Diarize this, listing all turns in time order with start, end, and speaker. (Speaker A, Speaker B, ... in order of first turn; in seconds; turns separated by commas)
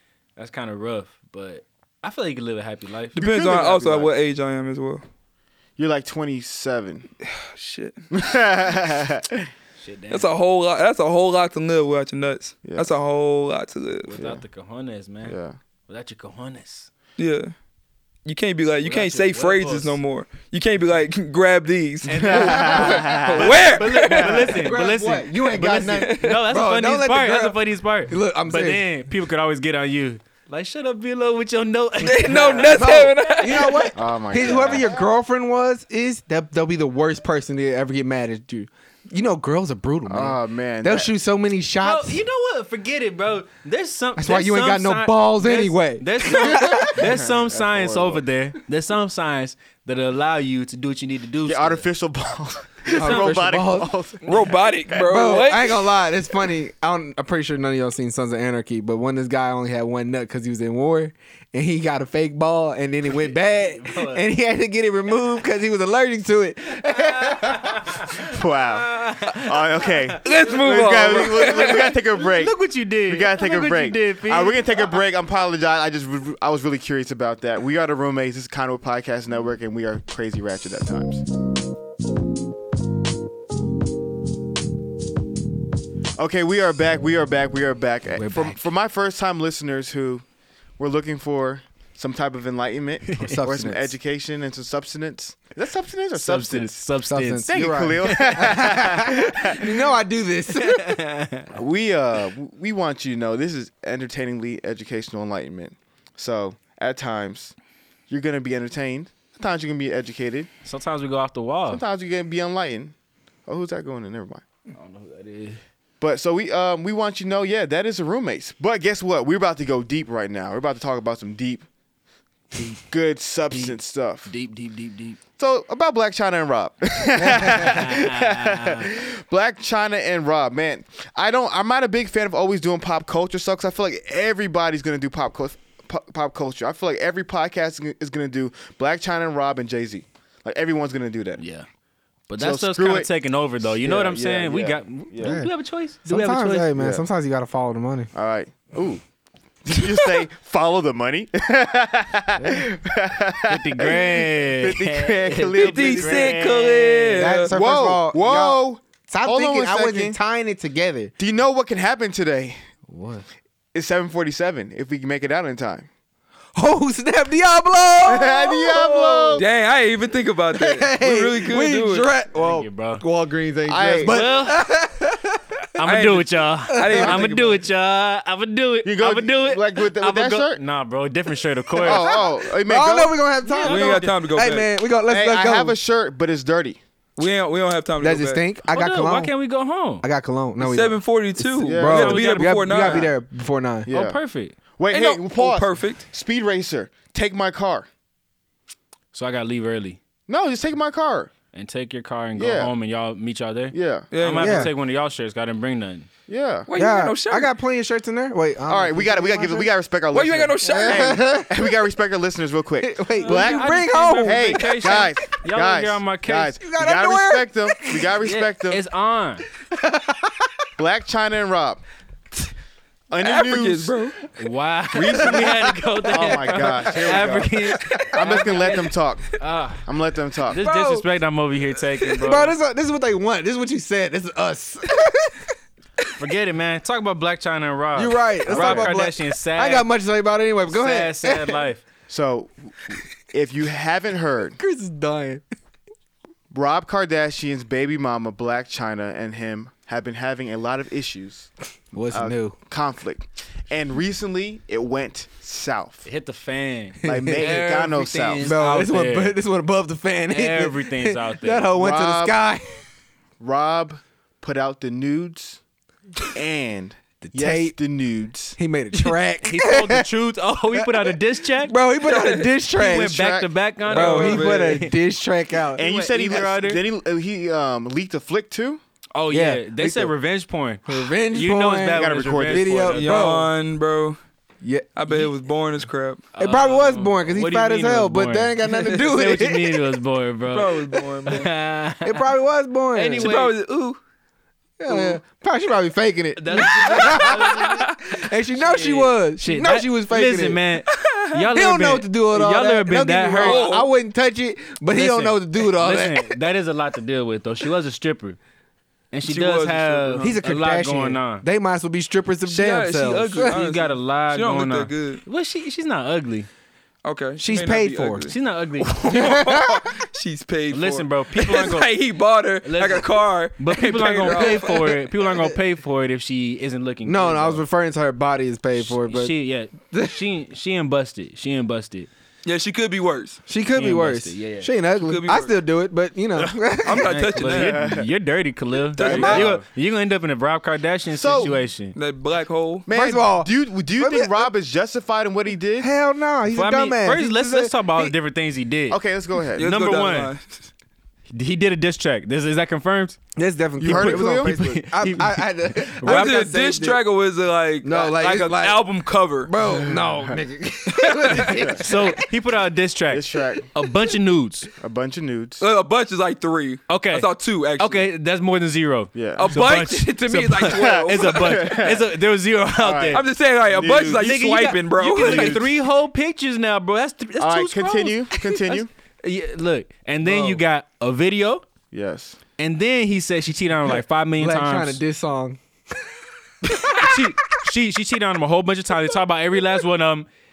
Speaker A: 0.3-3.2, Speaker B: 3.1-4.1, Speaker C: 3.1-5.0, Speaker B: 5.8-7.1, Speaker C: 7.4-8.0, Speaker B: 8.1-9.5, Speaker A: 9.8-10.3, Speaker C: 10.1-14.1, Speaker B: 12.6-12.9, Speaker A: 14.1-15.3, Speaker B: 14.1-14.4, Speaker B: 15.2-15.6, Speaker A: 15.9-16.9, Speaker C: 17.2-17.5, Speaker C: 18.2-24.6, Speaker A: 18.8-20.0, Speaker A: 22.1-34.8, Speaker B: 22.2-24.5, Speaker D: 24.5-27.6, Speaker C: 25.9-26.4, Speaker D: 28.1-28.9, Speaker C: 32.0-33.9, Speaker D: 32.6-42.2, Speaker B: 33.9-35.0, Speaker B: 40.1-41.1, Speaker A: 41.8-51.9, Speaker D: 44.2-47.0, Speaker B: 47.0-48.2, Speaker B: 51.4-54.2, Speaker A: 52.9-53.4, Speaker D: 52.9-53.9, Speaker C: 54.2-55.9, Speaker D: 54.9-67.9, Speaker A: 63.3-64.2, Speaker A: 67.2-68.2, Speaker B: 68.1-72.5, Speaker A: 68.8-70.2, Speaker C: 70.2-71.9, Speaker A: 71.4-74.9, Speaker B: 73.1-81.2, Speaker B: 86.2-90.2, Speaker D: 88.2-88.6, Speaker B: 90.8-96.8, Speaker A: 93.1-93.4, Speaker D: 93.2-93.9, Speaker A: 96.1-98.6, Speaker D: 97.1-101.0, Speaker B: 97.5-99.8, Speaker A: 100.5-101.5, Speaker B: 101.5-107.5, Speaker B: 108.1-110.5, Speaker A: 110.6-111.8, Speaker B: 111.7-112.9, Speaker B: 113.5-114.4, Speaker A: 114.7-115.6, Speaker B: 116.0-121.7, Speaker B: 122.8-124.3, Speaker A: 123.5-125.2, Speaker B: 125.4-141.4, Speaker D: 127.2-127.5, Speaker A: 127.5-128.9, Speaker A: 141.4-141.7, Speaker A: 142.3-146.7, Speaker B: 142.4-143.1, Speaker B: 143.6-145.4, Speaker D: 145.2-145.5, Speaker D: 146.0-148.1, Speaker B: 146.8-147.0, Speaker B: 148.1-149.0, Speaker B: 149.6-156.9, Speaker D: 152.4-152.7, Speaker A: 153.5-157.2, Speaker C: 155.6-157.5, Speaker D: 157.2-161.1, Speaker B: 157.5-160.2, Speaker B: 161.2-162.6, Speaker D: 162.9-163.2, Speaker B: 163.7-165.9, Speaker D: 166.5-169.4, Speaker B: 168.0-169.4, Speaker C: 169.3-172.1, Speaker D: 170.5-175.6, Speaker A: 172.3-173.0, Speaker B: 173.7-174.2, Speaker A: 174.0-174.7, Speaker A: 175.8-182.2, Speaker C: 175.8-177.6, Speaker D: 176.7-177.3, Speaker B: 178.8-180.6, Speaker D: 181.8-185.8, Speaker B: 181.8-183.2, Speaker A: 183.4-184.1, Speaker C: 183.6-184.7, Speaker B: 185.1-186.8, Speaker C: 187.2-188.4, Speaker D: 188.0-189.3, Speaker A: 188.7-190.0, Speaker D: 190.0-193.9, Speaker C: 190.6-193.1, Speaker B: 191.6-192.1, Speaker A: 191.9-193.1, Speaker B: 193.9-194.2, Speaker A: 193.9-194.6, Speaker B: 194.8-197.9, Speaker C: 194.9-196.0, Speaker A: 199.1-200.0, Speaker B: 200.3-201.3, Speaker A: 201.5-206.1, Speaker B: 202.3-202.7, Speaker B: 203.7-204.1, Speaker C: 204.1-204.7, Speaker D: 204.4-204.7, Speaker B: 206.3-206.7, Speaker C: 206.7-207.5, Speaker D: 206.7-209.7, Speaker B: 208.7-218.8, Speaker C: 210.1-211.2, Speaker D: 210.6-211.7, Speaker D: 212.8-214.7, Speaker A: 213.2-216.6, Speaker D: 216.6-218.2, Speaker A: 218.2-219.4, Speaker D: 219.7-220.5, Speaker B: 220.8-221.8, Speaker B: 223.1-223.9, Speaker C: 223.2-224.2, Speaker A: 224.4-229.8, Speaker B: 224.9-230.6, Speaker D: 226.2-227.2, Speaker D: 227.8-228.3, Speaker A: 230.5-232.5, Speaker D: 230.6-231.0, Speaker D: 232.2-235.5, Speaker A: 236.2-239.9, Speaker D: 237.9-241.6, Speaker B: 238.5-238.9, Speaker A: 240.7-241.8, Speaker B: 242.1-244.6, Speaker D: 244.6-245.4, Speaker B: 246.5-251.5, Speaker D: 251.9-252.6, Speaker B: 252.1-256.1, Speaker A: 256.0-259.4, Speaker D: 257.0-257.5, Speaker B: 257.0-258.5, Speaker D: 258.4-262.8, Speaker A: 260.3-261.7, Speaker B: 261.8-262.4, Speaker B: 263.4-265.6, Speaker B: 266.2-268.6, Speaker D: 267.2-267.8, Speaker D: 268.6-270.1, Speaker A: 269.0-271.7, Speaker D: 270.7-273.2, Speaker C: 272.0-272.5, Speaker A: 272.7-274.9, Speaker B: 272.8-273.5, Speaker D: 273.9-275.8, Speaker C: 273.9-274.8, Speaker B: 275.8-278.8, Speaker A: 275.8-276.8, Speaker A: 279.1-283.4, Speaker D: 279.3-280.1, Speaker D: 280.9-283.5, Speaker B: 281.9-283.0, Speaker C: 282.9-284.2, Speaker D: 284.6-285.3, Speaker C: 284.9-286.2, Speaker A: 286.3-292.2, Speaker D: 286.4-289.8, Speaker C: 290.5-291.5, Speaker D: 292.0-293.3, Speaker A: 292.9-293.5, Speaker C: 293.2-294.0, Speaker D: 294.8-300.6, Speaker A: 294.9-295.1, Speaker A: 296.4-297.9, Speaker C: 296.9-297.9, Speaker A: 298.5-303.7, Speaker C: 300.9-301.4, Speaker D: 301.5-306.4, Speaker C: 303.4-303.9, Speaker A: 304.9-308.4, Speaker A: 309.1-311.4, Speaker C: 309.3-310.4, Speaker D: 310.2-313.5, Speaker C: 312.4-315.2, Speaker A: 313.4-316.5, Speaker C: 317.0-325.1, Speaker D: 317.4-318.3, Speaker A: 318.3-319.0, Speaker D: 319.0-319.9, Speaker A: 320.7-321.9, Speaker A: 322.6-327.6, Speaker D: 324.2-324.8, Speaker D: 327.0-329.3, Speaker A: 328.8-332.1, Speaker D: 329.9-330.2, Speaker C: 332.4-333.4, Speaker D: 333.5-337.1, Speaker A: 333.8-334.7, Speaker C: 335.0-335.5, Speaker A: 336.4-341.9, Speaker C: 336.8-337.9, Speaker B: 337.4-338.1, Speaker C: 338.9-339.6, Speaker B: 339.0-339.5, Speaker D: 339.1-339.5, Speaker B: 341.1-341.6, Speaker C: 341.9-342.9, Speaker B: 342.9-345.9, Speaker D: 342.9-344.5, Speaker D: 345.8-348.1, Speaker A: 346.5-349.0, Speaker B: 348.9-349.6, Speaker C: 349.6-350.6, Speaker A: 349.6-350.3, Speaker A: 351.3-353.2, Speaker D: 353.4-357.0, Speaker B: 353.8-354.7, Speaker A: 353.8-356.4, Speaker C: 356.0-359.5, Speaker D: 357.8-358.8, Speaker D: 359.4-362.3, Speaker B: 359.8-360.4, Speaker C: 360.9-361.7, Speaker B: 361.5-361.8, Speaker A: 361.7-364.7, Speaker B: 363.1-363.7, Speaker B: 364.8-365.6, Speaker C: 365.6-368.0, Speaker A: 366.9-373.2, Speaker B: 369.1-369.5, Speaker C: 369.3-371.9, Speaker B: 370.6-372.1, Speaker B: 372.8-374.3, Speaker C: 373.1-375.7, Speaker A: 374.1-381.6, Speaker B: 375.1-375.6, Speaker B: 377.4-378.9, Speaker B: 381.9-382.4, Speaker A: 382.6-385.0, Speaker D: 384.4-385.6, Speaker D: 386.7-387.2, Speaker A: 386.9-390.3